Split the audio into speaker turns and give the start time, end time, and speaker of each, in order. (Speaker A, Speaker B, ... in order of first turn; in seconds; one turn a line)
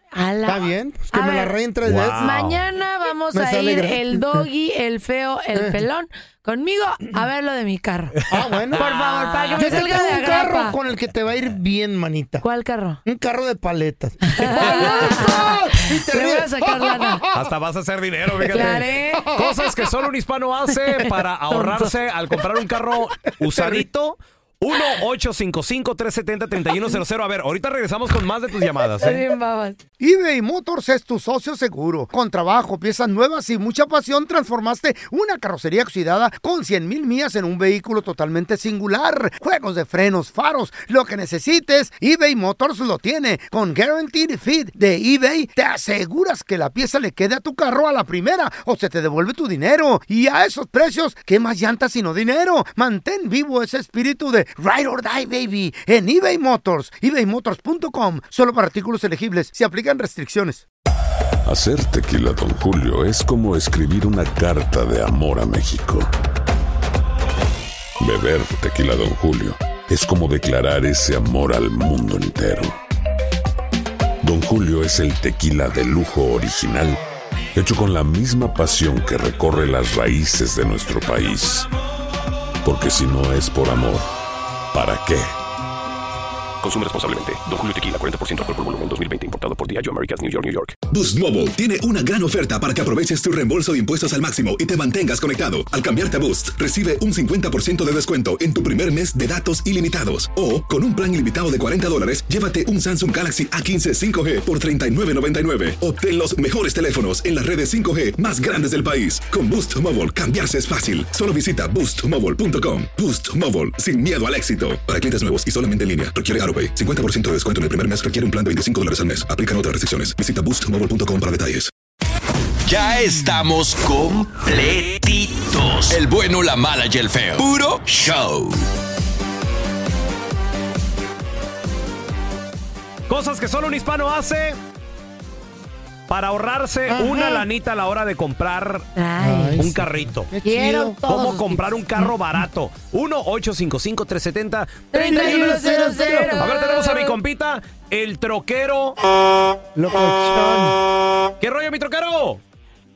Speaker A: 0.1-1.5
Speaker B: 0.5-2.3
Speaker C: 1.8-2.6
Speaker A: 2.2-8.2
Speaker B: 3.3-4.4
Speaker B: 5.5-5.8
Speaker B: 8.3-8.9
Speaker C: 8.7-9.6
Speaker A: 8.7-10.8
Speaker B: 9.6-12.4
Speaker A: 12.4-13.0
Speaker B: 13.0-17.5
Speaker A: 14.2-17.2
Speaker C: 17.3-29.2
Speaker B: 18.4-19.7
Speaker A: 18.5-19.3
Speaker A: 21.5-21.9
Speaker B: 23.4-23.8
Speaker A: 29.0-29.8
Speaker B: 30.0-60.6
Speaker D: 61.5-66.1
Speaker D: 68.0-72.7
Speaker D: 74.2-77.0
Speaker D: 77.5-81.7
Speaker D: 82.6-84.1
Speaker D: 84.7-85.3
Speaker E: 86.6-90.8
Speaker F: 90.9-121.7
Speaker G: 122.7-128.7
Speaker C: 133.1-134.6
Speaker C: 136.1-138.9
Speaker B: 136.9-137.4
Speaker A: 138.9-139.6
Speaker B: 139.2-141.0
Speaker C: 139.6-140.3
Speaker A: 140.4-142.1
Speaker C: 140.9-149.0
Speaker A: 144.9-147.2
Speaker B: 145.0-146.4
Speaker B: 149.7-150.8
Speaker C: 151.4-152.4